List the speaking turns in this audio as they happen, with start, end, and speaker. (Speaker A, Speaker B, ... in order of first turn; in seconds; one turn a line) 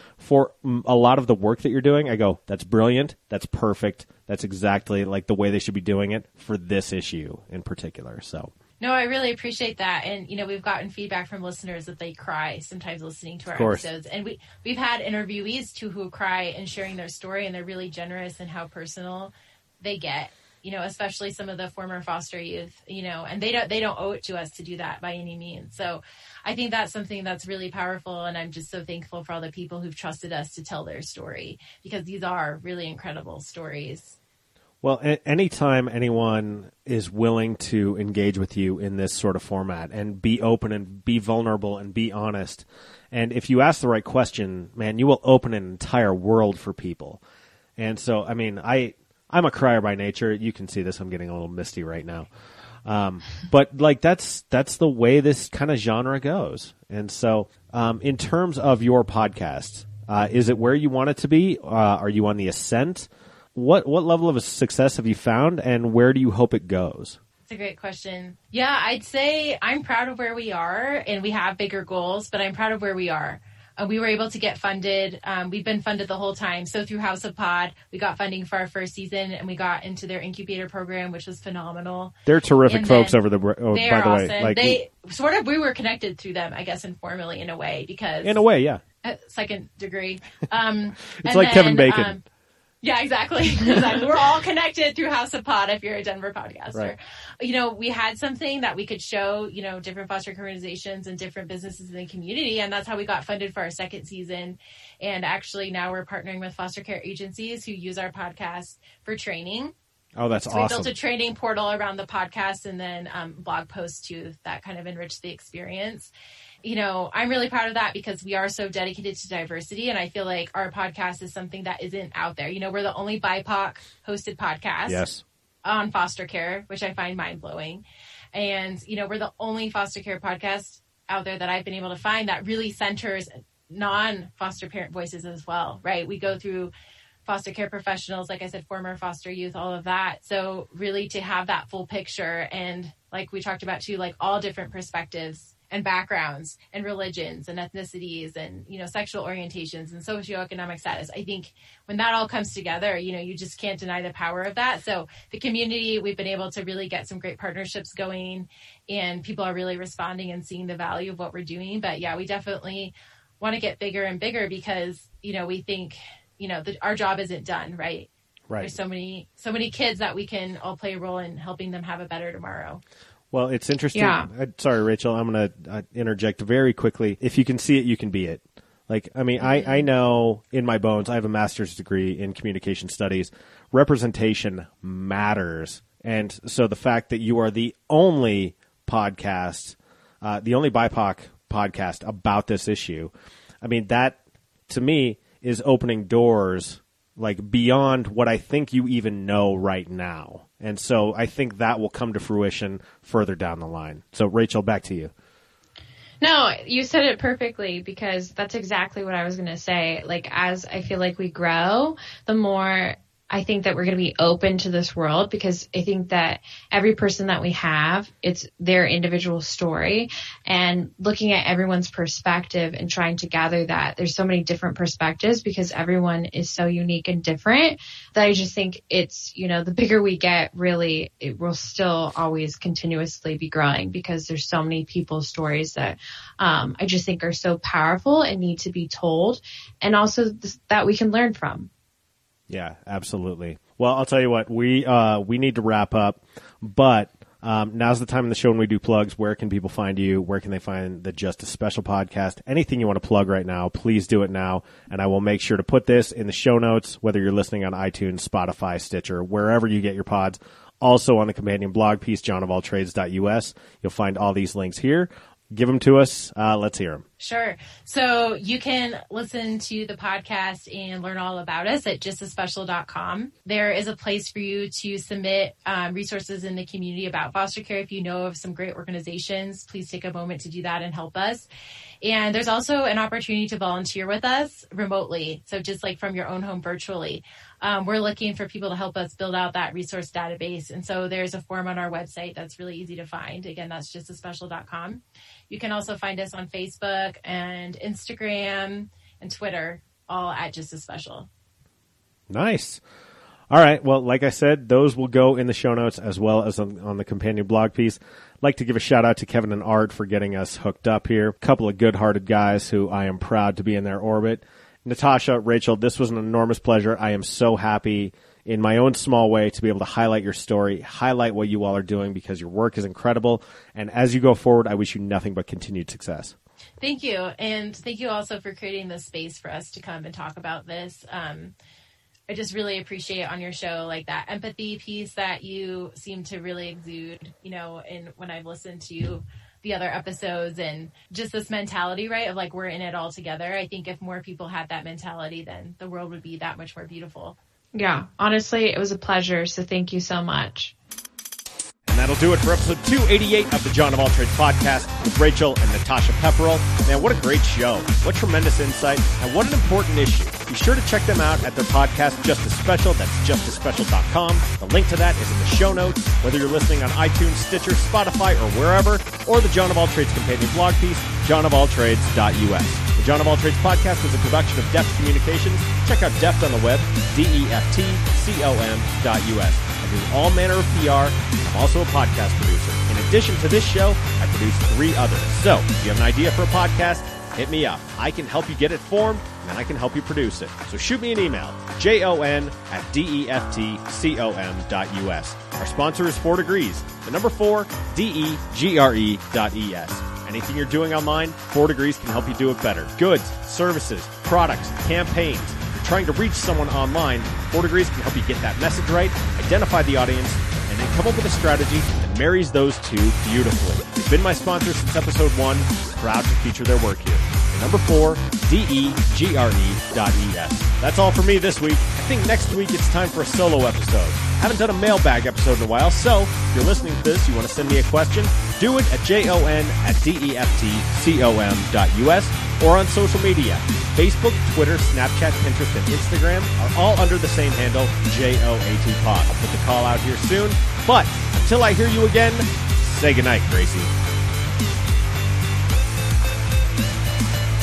Speaker A: 0.2-8.5
Speaker B: 8.8-34.1
Speaker A: 13.5-13.9
Speaker A: 34.8-47.2
Speaker A: 47.8-52.3
Speaker A: 52.8-67.2
Speaker B: 67.5-82.1
Speaker A: 82.3-84.8
Speaker B: 82.7-83.2
Speaker B: 83.7-88.4
Speaker A: 88.2-88.8
Speaker B: 89.0-92.2
Speaker A: 91.2-92.2
Speaker B: 92.8-109.7
Speaker A: 110.2-110.9
Speaker B: 110.5-116.1
Speaker B: 116.6-125.0
Speaker A: 124.9-125.2
Speaker B: 125.6-136.7
Speaker B: 137.2-168.1
Speaker A: 168.5-168.8
Speaker B: 168.6-172.8
Speaker A: 173.3-205.1
Speaker C: 173.9-174.3
Speaker B: 179.4-179.8
Speaker C: 206.2-241.7
Speaker A: 242.5-267.0
Speaker B: 267.2-281.5
Speaker B: 282.0-301.3
Speaker A: 302.3-302.8
Speaker A: 303.5-326.3
Speaker B: 326.8-331.5
Speaker B: 332.3-347.4
Speaker C: 347.8-350.7
Speaker A: 351.9-443.9